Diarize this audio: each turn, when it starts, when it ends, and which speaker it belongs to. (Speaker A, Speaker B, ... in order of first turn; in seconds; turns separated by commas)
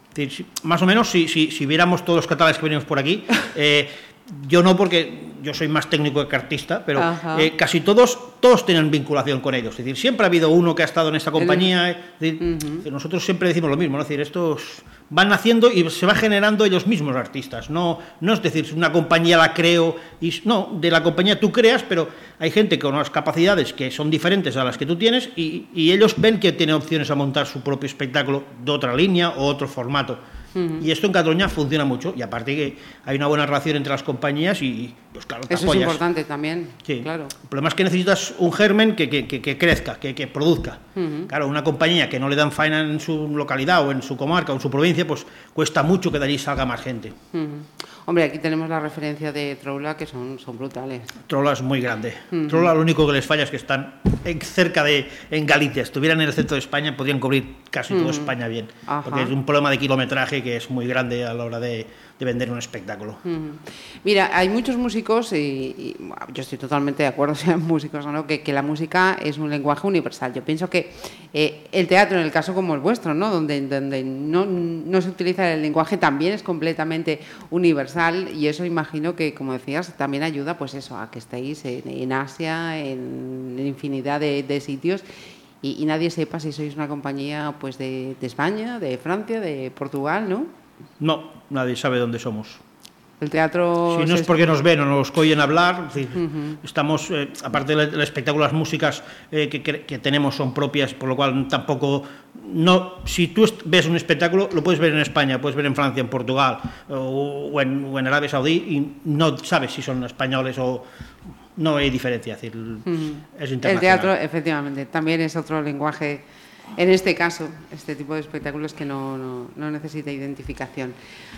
Speaker A: 0.1-30.2, Speaker B: 7.0-7.5, Speaker B: 11.4-11.7, Speaker B: 12.4-12.9, Speaker B: 30.6-30.9, Speaker A: 30.8-36.0, Speaker B: 35.5-37.3, Speaker A: 36.9-47.1, Speaker B: 41.0-41.3, Speaker B: 47.3-51.2, Speaker A: 51.3-63.2, Speaker B: 52.3-52.7, Speaker B: 57.9-58.3, Speaker B: 58.9-59.3, Speaker B: 63.2-85.0, Speaker B: 85.6-90.5, Speaker A: 91.0-92.6, Speaker B: 93.2-94.5, Speaker A: 93.9-110.9, Speaker B: 96.2-96.6, Speaker A: 111.6-114.1, Speaker B: 112.9-116.2, Speaker B: 116.8-121.0